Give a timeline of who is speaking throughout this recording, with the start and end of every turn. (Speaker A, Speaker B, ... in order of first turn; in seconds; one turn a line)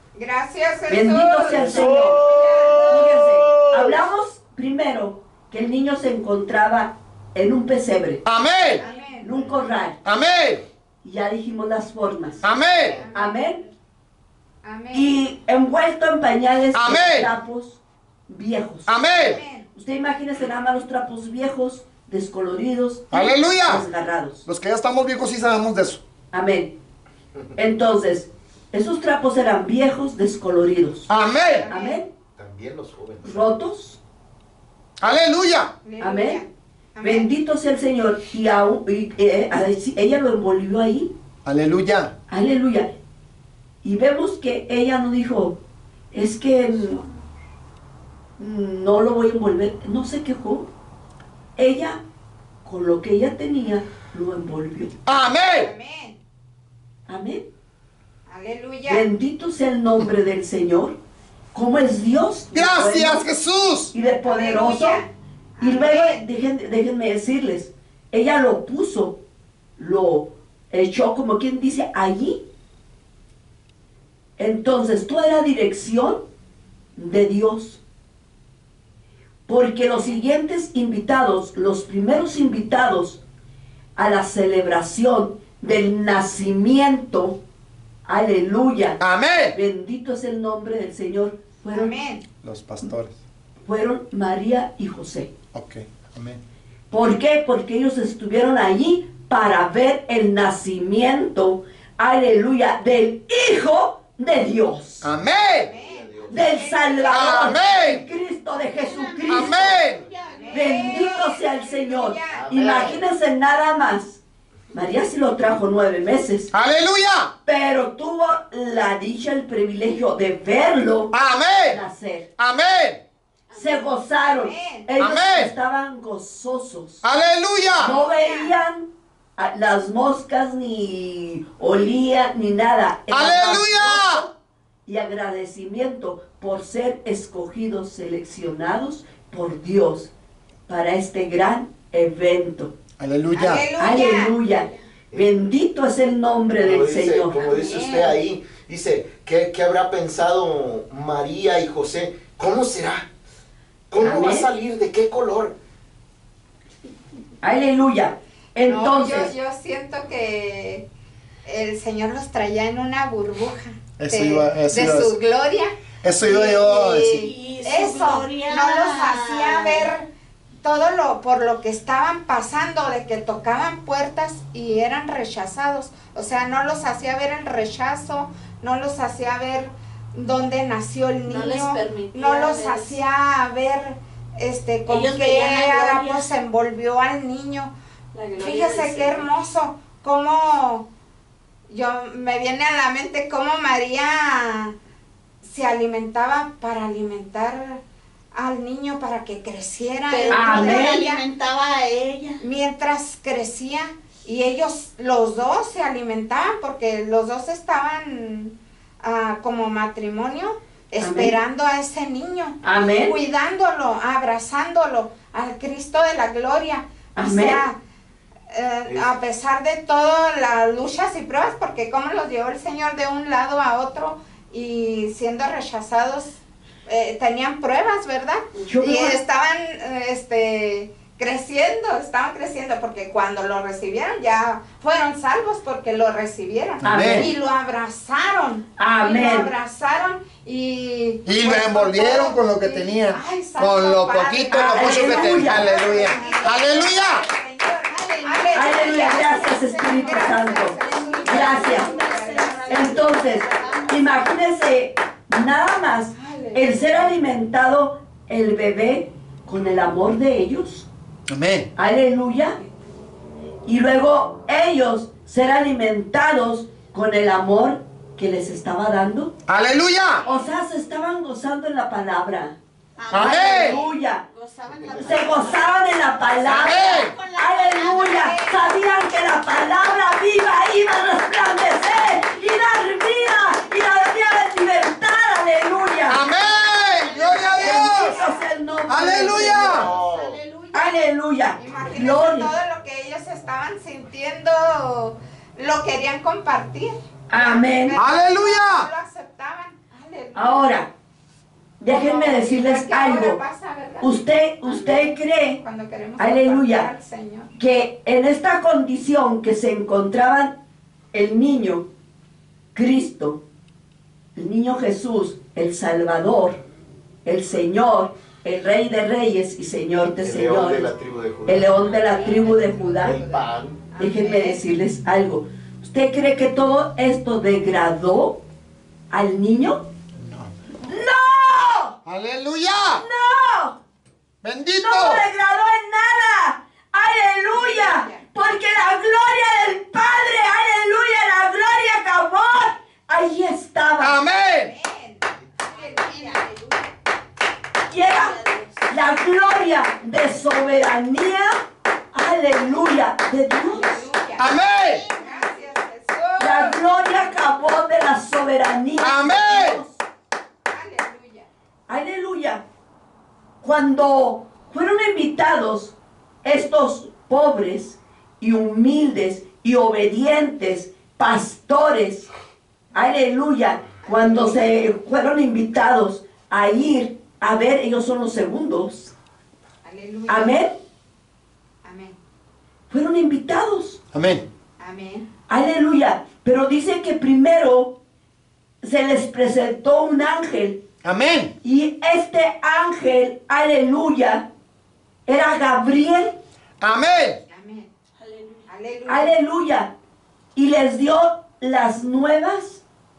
Speaker A: 0.1-3.1
Speaker B: 0.9-2.2
Speaker C: 1.5-4.0
Speaker B: 2.9-8.2
Speaker D: 8.2-8.8
Speaker A: 8.8-9.3
Speaker E: 8.8-9.1
Speaker B: 9.2-10.0
Speaker D: 10.0-10.6
Speaker B: 11.0-12.5
Speaker D: 12.4-13.0
Speaker C: 12.8-13.1
Speaker A: 12.9-13.4
Speaker B: 13.1-13.6
Speaker A: 14.6-15.1
Speaker B: 14.9-18.9
Speaker D: 16.7-17.3
Speaker D: 18.9-19.4
Speaker A: 19.2-19.6
Speaker B: 19.7-24.5
Speaker D: 23.1-23.8
Speaker D: 24.4-26.0
Speaker B: 26.3-26.7
Speaker B: 27.6-31.1
Speaker D: 31.1-31.7
Speaker A: 31.5-32.0
Speaker B: 31.7-32.1
Speaker C: 32.4-33.5
Speaker B: 33.2-34.0
Speaker D: 35.0-35.7
Speaker A: 35.8-37.3
Speaker B: 36.0-36.4
Speaker B: 37.0-41.1
Speaker D: 41.4-42.1
Speaker B: 42.3-42.9
Speaker B: 43.8-45.6
Speaker B: 46.1-47.0
Speaker E: 46.7-47.1
Speaker B: 48.4-50.7
Speaker B: 51.5-52.0
Speaker B: 52.6-54.9
Speaker D: 55.0-55.7
Speaker A: 55.5-56.2
Speaker B: 57.1-57.4
Speaker A: 58.3-59.0
Speaker B: 58.9-61.0
Speaker B: 61.5-63.2
Speaker D: 62.5-63.9
Speaker B: 63.9-65.0
Speaker A: 64.2-66.2
Speaker B: 65.6-69.2
Speaker B: 69.8-72.4
Speaker B: 74.4-76.2
Speaker B: 77.0-77.8
Speaker B: 79.5-83.2
Speaker B: 84.0-87.4
Speaker B: 88.0-89.0
Speaker D: 89.0-89.5
Speaker B: 89.5-91.9
Speaker A: 91.7-92.2
Speaker D: 92.4-93.2
Speaker B: 93.7-95.3
Speaker D: 95.5-96.4
Speaker B: 96.9-105.1
Speaker D: 105.0-105.7
Speaker C: 105.6-106.7
Speaker A: 105.7-107.6
Speaker B: 106.3-109.8
Speaker D: 107.1-108.0
Speaker E: 108.6-111.2
Speaker D: 109.3-110.0
Speaker A: 110.3-112.4
Speaker B: 110.5-114.2
Speaker C: 112.3-113.0
Speaker B: 114.7-116.5
Speaker D: 116.5-117.3
Speaker B: 117.4-121.1
Speaker D: 121.1-121.8
Speaker B: 121.7-122.3
Speaker D: 122.4-123.0
Speaker E: 123.5-123.7
Speaker B: 123.5-127.0
Speaker A: 124.2-124.8
Speaker D: 125.0-125.5
Speaker D: 127.0-127.9
Speaker B: 127.8-134.3
Speaker A: 127.8-128.5
Speaker D: 133.1-134.2
Speaker B: 134.9-140.1
Speaker B: 140.7-142.7
Speaker D: 143.0-143.6
Speaker A: 143.3-144.3
Speaker B: 143.8-147.5
Speaker C: 146.6-153.1
Speaker A: 147.5-148.1
Speaker E: 147.5-148.1
Speaker C: 153.9-155.5
Speaker B: 154.0-154.5
Speaker B: 157.4-159.3
Speaker A: 158.7-160.8
Speaker A: 161.4-165.7
Speaker D: 164.0-165.1
Speaker D: 166.0-167.3
Speaker A: 166.2-170.1
Speaker E: 166.4-169.9
Speaker A: 170.6-187.7
Speaker E: 181.3-183.0
Speaker E: 184.9-186.3
Speaker E: 188.1-189.2
Speaker A: 188.4-190.9
Speaker A: 191.7-194.7
Speaker A: 195.4-197.8
Speaker A: 198.3-201.2
Speaker E: 200.1-202.4
Speaker B: 200.3-201.0
Speaker A: 202.4-217.8
Speaker B: 211.0-211.3
Speaker B: 212.6-213.1
Speaker B: 217.2-217.6
Speaker A: 218.5-253.7
Speaker B: 228.6-229.2
Speaker D: 236.8-237.3
Speaker B: 236.8-237.3
Speaker B: 238.8-239.5
Speaker D: 241.2-247.2
Speaker B: 244.5-246.0
Speaker E: 245.9-246.6
Speaker E: 247.9-254.1
Speaker B: 248.5-252.0
Speaker B: 252.7-260.9
Speaker A: 256.1-256.8
Speaker D: 261.3-261.7
Speaker B: 261.8-262.6
Speaker B: 263.6-269.3
Speaker D: 269.5-270.2
Speaker B: 270.2-272.6
Speaker E: 273.0-278.4
Speaker B: 273.1-274.2
Speaker D: 273.1-273.8
Speaker C: 274.7-275.4
Speaker B: 274.9-286.2
Speaker D: 276.4-277.1
Speaker A: 277.8-278.7
Speaker D: 286.1-288.1
Speaker E: 286.9-288.4
Speaker A: 287.3-288.4
Speaker B: 287.6-289.9
Speaker D: 288.9-289.9
Speaker E: 289.2-291.0
Speaker C: 289.5-290.4
Speaker B: 290.7-292.5
Speaker A: 291.6-300.8
Speaker B: 297.3-298.0
Speaker D: 297.9-298.9
Speaker B: 300.3-300.9
Speaker B: 301.8-303.4
Speaker A: 301.9-304.1
Speaker B: 304.0-305.6
Speaker E: 304.7-305.0
Speaker A: 305.6-307.5
Speaker B: 306.2-306.9
Speaker B: 307.5-310.5
Speaker B: 311.1-311.9
Speaker B: 312.7-313.4
Speaker B: 314.3-316.6
Speaker B: 317.2-320.9
Speaker C: 320.2-321.9
Speaker B: 321.4-323.2
Speaker E: 321.9-323.2
Speaker C: 322.9-323.9
Speaker B: 323.9-328.4
Speaker A: 324.0-324.5
Speaker E: 324.1-324.5
Speaker B: 329.1-329.8
Speaker D: 330.2-330.5
Speaker B: 330.8-332.0
Speaker D: 332.1-333.0
Speaker B: 332.9-333.8
Speaker D: 334.4-335.2
Speaker B: 334.8-344.2
Speaker A: 337.5-338.2
Speaker D: 344.0-344.7
Speaker A: 344.6-346.4
Speaker E: 345.6-346.9
Speaker B: 347.9-351.6
Speaker E: 347.9-349.1
Speaker B: 352.1-354.0
Speaker E: 353.7-354.1
Speaker A: 353.7-356.8
Speaker D: 354.4-355.0
Speaker E: 354.8-355.7
Speaker B: 356.4-360.0
Speaker D: 359.0-359.8
Speaker A: 360.7-361.5
Speaker B: 361.9-362.6
Speaker B: 363.6-372.3
Speaker B: 372.9-379.1
Speaker A: 374.0-374.7
Speaker A: 379.8-380.6
Speaker B: 380.3-380.8
Speaker A: 381.8-382.1
Speaker B: 382.9-384.0
Speaker D: 384.1-384.4
Speaker A: 384.8-385.3
Speaker B: 385.5-387.9
Speaker B: 388.8-390.8
Speaker D: 391.0-391.5
Speaker B: 391.6-394.5
Speaker B: 395.2-396.4
Speaker D: 396.8-397.4
Speaker A: 397.5-397.9
Speaker E: 398.2-398.7
Speaker A: 398.7-399.3
Speaker B: 399.1-399.9
Speaker B: 400.5-402.8